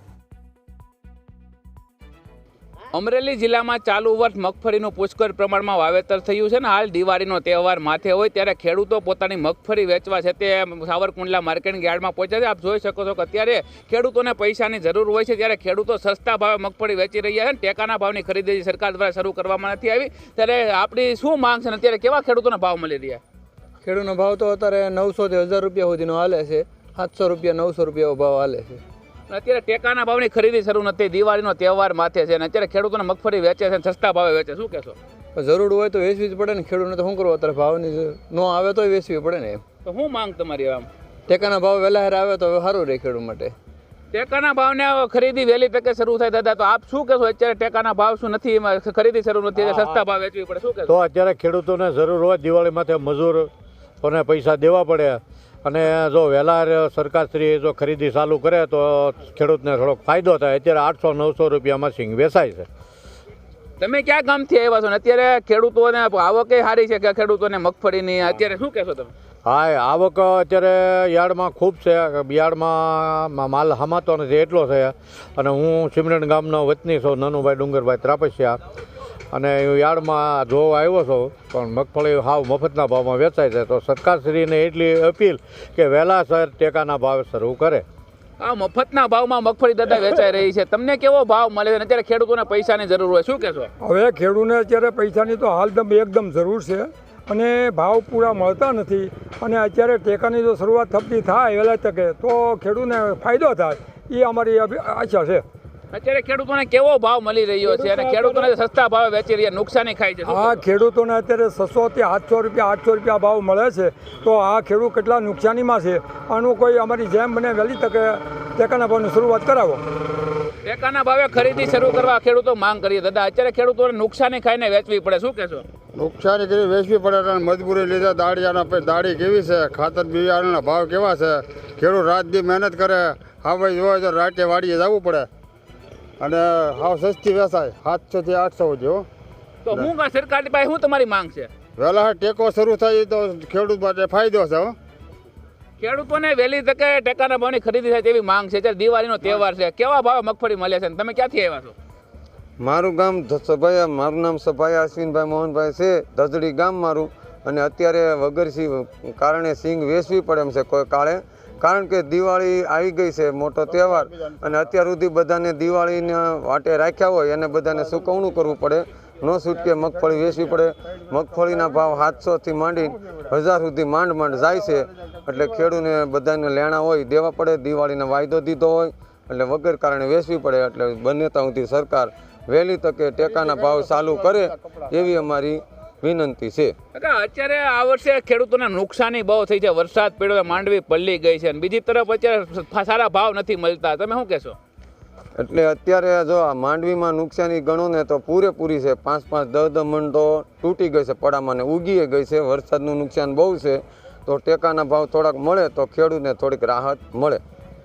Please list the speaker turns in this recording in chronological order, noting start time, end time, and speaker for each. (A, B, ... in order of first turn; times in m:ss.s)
0:02.9-0:23.2 A
0:23.8-0:28.8 B
0:29.3-0:34.9 A
0:35.3-0:39.6 B
0:39.8-0:40.9 A
0:41.3-0:43.5 B
0:44.1-0:50.9 A
0:49.6-0:50.0 C
0:50.9-0:53.5 C
0:54.0-1:02.7 C
1:03.8-1:09.1 A
1:09.4-1:18.6 C
1:19.3-1:27.8 C
1:28.4-1:33.7 A
1:33.8-1:45.4 D
1:45.9-1:50.6 A
1:47.7-1:48.5 D
1:50.2-1:59.8 D
2:00.6-2:05.6 A
2:05.9-2:15.3 E
2:16.2-2:19.1 E
2:19.6-2:21.5 A
2:21.8-2:24.8 E
2:25.8-2:31.7 A
2:32.6-3:06.7 F
3:06.9-3:14.6 A
3:15.4-3:27.4 F